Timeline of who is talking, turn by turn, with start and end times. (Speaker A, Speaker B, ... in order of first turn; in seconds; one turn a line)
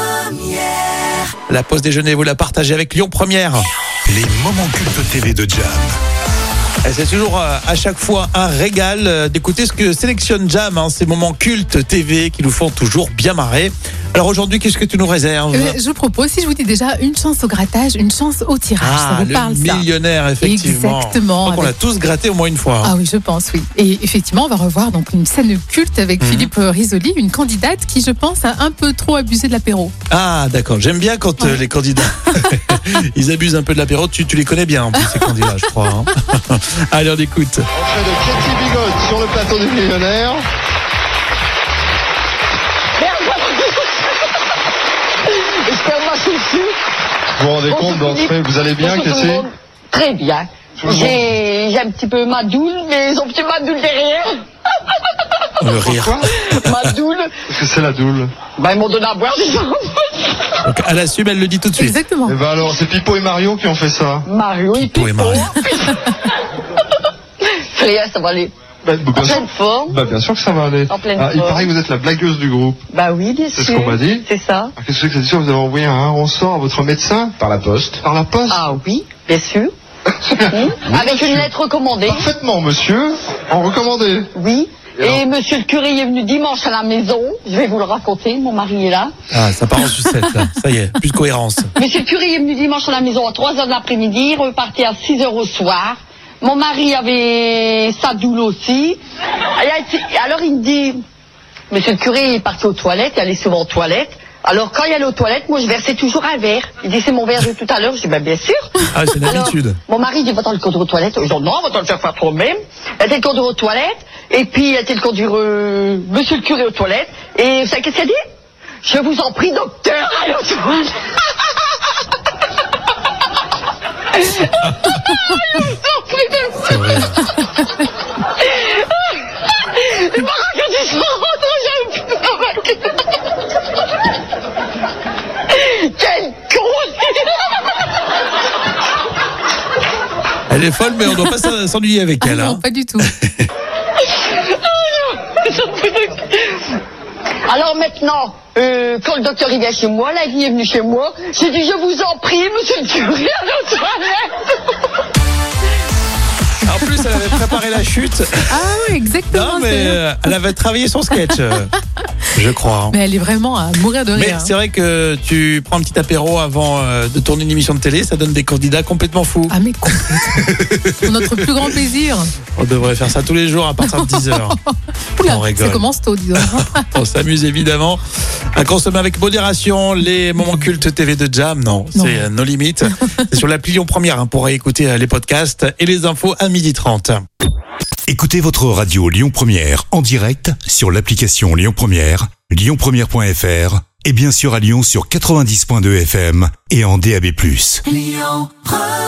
Speaker A: 1.5-3.7
Speaker B: 4.0-5.9
Speaker A: 6.8-15.8
Speaker C: 15.5-19.9
Speaker A: 18.8-22.9
Speaker C: 20.4-21.7
Speaker C: 22.8-29.9
Speaker A: 26.2-26.5
Speaker A: 30.1-37.6
Speaker C: 35.0-35.4
Speaker D: 37.7-40.5
Speaker E: 43.0-44.3
Speaker E: 45.2-46.7
Speaker D: 47.4-49.5
Speaker E: 47.7-54.3
Speaker D: 50.8-51.2
Speaker A: 55.6-56.9
Speaker D: 55.9-56.3
Speaker E: 56.2-57.3
Speaker D: 57.5-58.3
Speaker E: 58.5-60.6
Speaker A: 60.6-62.0
Speaker C: 61.8-62.4
Speaker D: 62.2-64.2
Speaker E: 64.2-66.4
Speaker A: 64.7-65.6
Speaker E: 67.4-68.5
Speaker D: 68.8-72.8
Speaker E: 69.1-70.0
Speaker E: 70.9-71.7
Speaker E: 72.9-74.7
Speaker D: 73.5-74.2
Speaker D: 74.8-78.6
Speaker E: 78.5-79.7
Speaker D: 80.1-81.5
Speaker E: 80.5-82.3
Speaker D: 82.0-84.3
Speaker E: 84.3-89.1
Speaker D: 85.0-85.2
Speaker A: 89.3-91.7
Speaker E: 91.8-99.0
Speaker E: 99.5-101.0
Speaker E: 101.7-118.2
Speaker A: 108.9-109.8
Speaker E: 118.8-121.6
Speaker E: 124.1-126.8
Speaker A: 126.6-127.2
Speaker E: 128.2-133.1
Speaker E: 135.5-137.8
Speaker A: 140.5-143.5
Speaker C: 142.2-143.1
Speaker E: 144.0-146.8
Speaker E: 147.5-154.7
Speaker A: 156.6-158.8
Speaker C: 157.0-157.3
Speaker C: 158.5-160.0
Speaker A: 159.3-161.7
Speaker A: 162.3-163.0
Speaker C: 162.9-164.5
Speaker A: 164.2-170.0
Speaker C: 169.5-172.3
Speaker A: 170.6-170.9
Speaker A: 172.6-174.6
Speaker C: 173.9-176.9
Speaker A: 175.2-175.8
Speaker A: 176.4-178.0
Speaker A: 178.6-187.2
Speaker C: 181.9-182.2
Speaker B: 188.1-197.8
Speaker C: 198.0-198.5